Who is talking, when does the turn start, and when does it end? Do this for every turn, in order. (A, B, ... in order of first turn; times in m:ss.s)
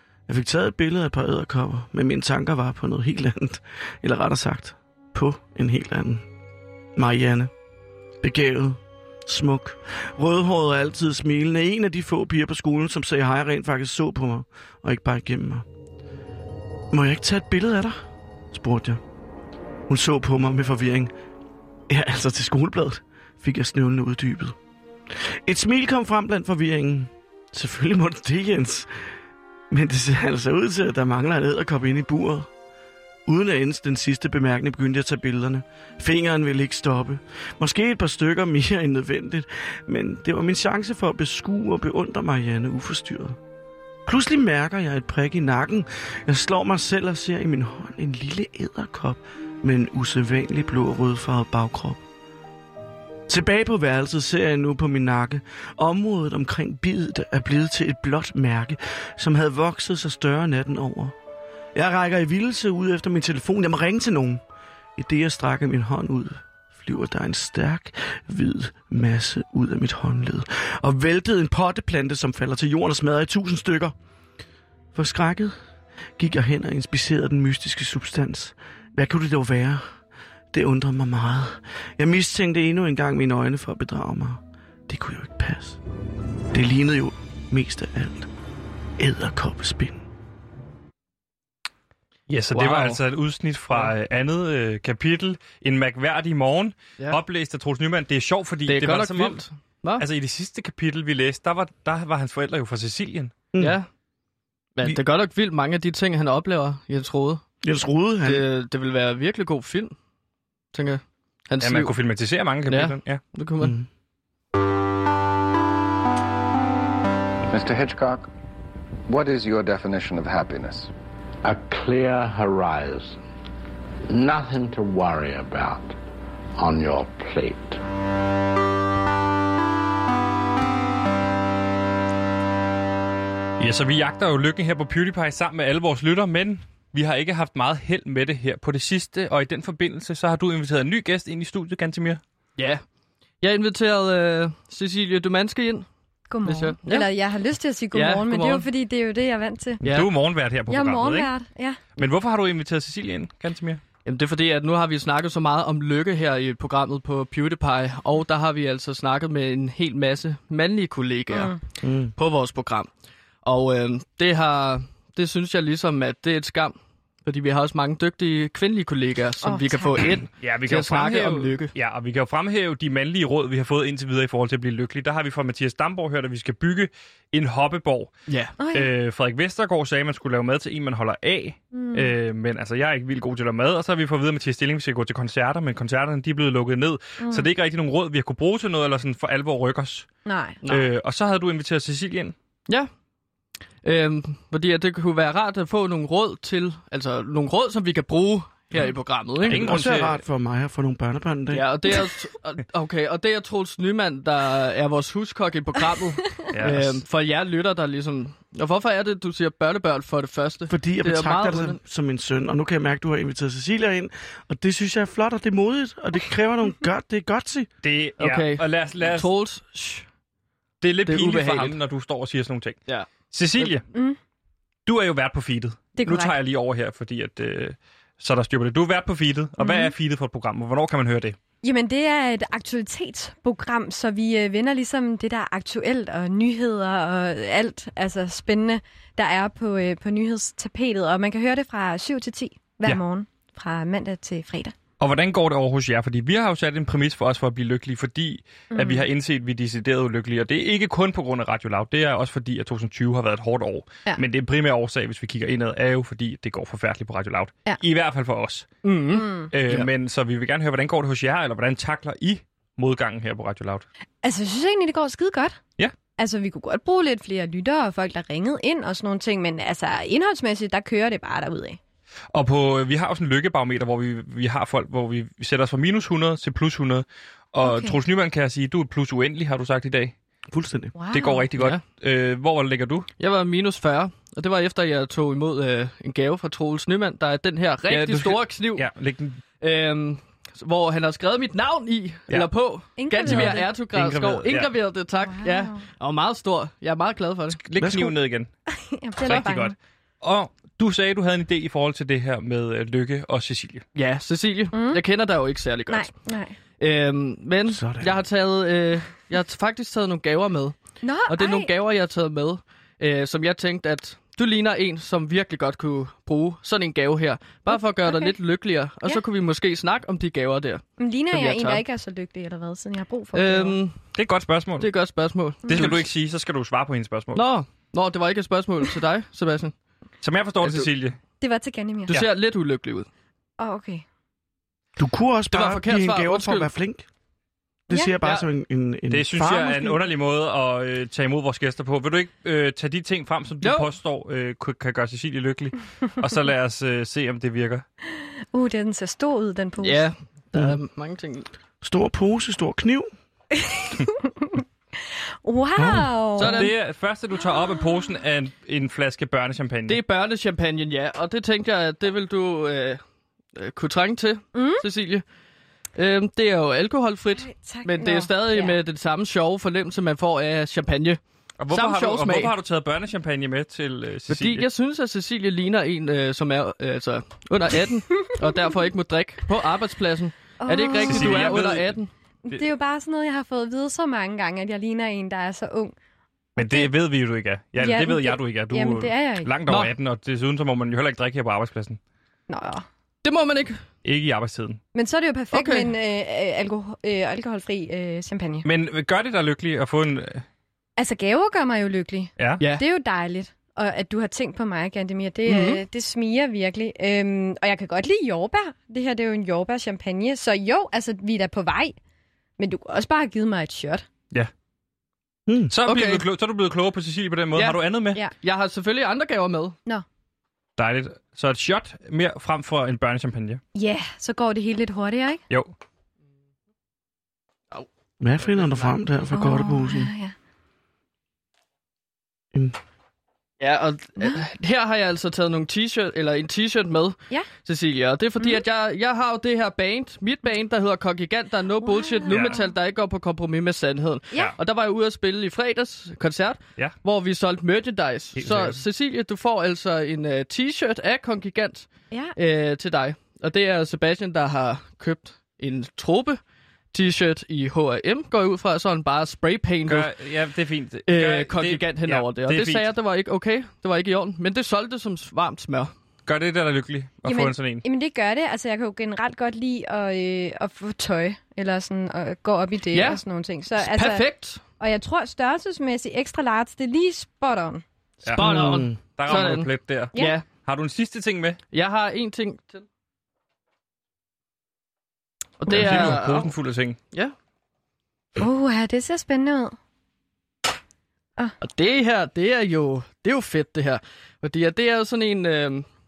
0:00.3-0:06.2 A
0:07.0-0:07.5 A
0:08.2-0:15.7 A
0:16.9-0:19.0 A
0:19.9-0:21.1 A
0:21.9-0:24.6 A
0:25.1-0:28.9 A
0:29.7-0:32.5 A
0:33.3-0:43.4 A
0:44.1-0:52.0 A
0:53.3-1:01.2 A
1:01.7-1:04.4 A
1:05.0-1:13.9 A
1:15.0-1:15.6 A
1:16.2-1:19.9 A
1:20.5-1:25.8 A
1:26.5-1:28.3 A
1:29.0-1:30.0 A
1:32.3-1:39.4 B
1:32.5-1:33.0 C
1:38.7-1:40.0 C
1:40.0-1:43.3 B
1:43.5-1:43.8 A
1:43.6-1:43.9 C
1:44.8-1:47.4 C
1:47.6-1:48.4 A
1:48.2-1:50.0 C
1:50.7-1:51.9 C
1:51.6-1:53.2 B
1:52.7-1:53.8 C
1:53.6-1:53.9 A
1:57.5-1:58.3 D
1:59.1-2:00.9 D
2:01.4-2:03.2 E
2:04.1-2:06.0 E
2:06.6-2:07.8 E
2:13.6-2:22.2 B
2:22.6-2:22.8 C
2:23.4-2:25.9 C
2:26.3-2:29.8 F
2:26.4-2:27.1 C
2:27.9-2:28.7 C
2:29.8-2:30.1 C
2:29.8-2:31.3 B
2:30.7-2:31.8 F
2:32.0-2:33.8 B
2:34.0-2:41.5 C
2:41.3-2:41.6 F
2:41.8-2:42.1 A
2:42.2-2:42.9 C
2:43.4-2:51.7 C
2:49.4-2:50.0 F
2:50.4-2:58.1 B
2:58.3-2:58.5 C
2:58.6-2:58.9 F
2:58.7-3:10.1 B
3:01.7-3:02.1 F
3:07.2-3:07.5 F
3:10.2-3:10.6 F
3:10.6-3:10.9 C
3:10.7-3:12.4 B
3:13.8-3:19.7 C
3:19.4-3:20.2 B
3:19.5-3:21.7 A
3:21.5-3:31.8 C
3:26.5-3:27.0 B
3:30.7-3:37.7 A
3:37.8-3:39.3 B
3:38.2-3:40.1 C
3:40.8-3:42.8 B
3:41.0-3:41.8 C
3:42.9-3:43.7 C
3:43.3-3:43.8 B
3:44.9-3:51.4 B
3:46.0-3:46.4 F
3:49.6-3:49.9 F
3:51.6-4:04.8 F
4:05.0-4:18.7 B
4:08.7-4:09.1 F
4:18.8-4:19.9 C
4:19.1-4:19.5 F
4:19.5-4:23.9 B
4:24.2-4:25.6 F
4:26.2-4:31.8 F
4:32.3-4:40.2 B
4:37.6-4:38.0 F
4:40.5-4:40.9 A
4:41.0-4:41.5 F
4:41.1-4:43.1 B
4:43.2-4:48.8 C
4:47.9-4:49.4 B
4:49.6-4:57.6 C
4:53.0-4:53.7 F
4:53.2-4:54.7 B
4:55.2-4:55.8 F
4:57.6-4:58.5 B
4:57.8-4:58.1 A
4:58.7-4:59.8 F
4:59.2-5:03.8 B
5:04.0-5:06.1 C
5:04.7-5:05.0 F
5:05.9-5:06.6 F
5:06.8-5:10.8 C
5:07.7-5:08.2 A
5:11.0-5:11.7 F
5:11.3-5:21.8 C
5:17.7-5:18.4 F
5:21.0-5:23.8 F
5:23.3-5:24.0 C
5:24.2-5:24.9 B
5:24.8-5:26.0 C
5:25.6-5:26.0 F
5:25.7-5:27.4 B
5:27.4-5:29.7 C
5:30.2-5:31.2 B
5:30.6-5:30.9 C
5:31.4-5:32.2 F
5:32.1-5:33.1 C
5:33.6-5:34.0 F
5:35.0-5:37.1 A
5:35.5-5:36.7 C
5:37.9-5:40.0 A
5:39.1-5:47.8 B
5:43.6-5:43.9 C
5:48.5-5:50.1 F
5:49.8-5:51.5 C
5:51.8-5:53.1 A
5:53.6-5:54.6 F
5:55.4-5:56.7 F
5:55.8-5:56.0 A
5:56.4-5:56.7 C
5:56.4-6:00.0 B
5:59.9-6:03.0 C
6:03.6-6:05.2 C
6:04.5-6:04.8 F
6:06.0-6:12.5 C
6:07.4-6:08.8 F
6:11.6-6:14.7 B
6:14.3-6:22.1 C
6:20.6-6:21.7 F
6:20.9-6:22.0 B
6:22.5-6:26.0 F
6:26.6-6:32.0 B
6:26.6-6:26.9 F
6:27.8-6:29.5 F
6:29.7-6:29.9 C
6:32.5-6:32.8 F
6:33.2-6:33.8 C
6:34.0-6:34.8 B
6:34.9-6:38.7 F
6:35.5-6:35.9 C
6:38.6-6:40.4 B
6:41.0-6:52.0 F
6:42.4-6:42.6 B
6:45.5-6:45.8 C
6:52.6-6:54.1 F
6:55.5-6:55.7 A
6:55.7-6:58.2 B
6:55.9-6:56.2 C
6:57.5-6:57.8 C
6:58.4-6:59.8 C
7:00.8-7:03.6 B
7:03.8-7:05.4 F
7:08.2-7:10.1 A
7:08.4-7:08.9 C
7:09.3-7:10.4 F
7:13.6-7:36.4 C
7:21.8-7:22.7 F
7:22.3-7:22.6 B
7:28.4-7:28.8 B
7:32.1-7:32.4 F
7:36.9-7:40.1 C
7:39.9-7:42.9 B
7:41.1-7:45.9 C
7:46.3-7:47.8 B
7:47.2-7:54.3 F
7:52.9-7:53.2 C
7:53.8-7:54.6 C
7:54.8-7:57.8 F
7:58.2-8:01.6 B
7:58.4-8:00.4 C
7:58.4-7:59.0 A
8:00.2-8:00.4 F
8:01.7-8:02.8 C
8:05.6-8:06.5 C
8:05.7-8:07.0 B
8:08.4-8:09.8 F
8:11.6-8:15.9 C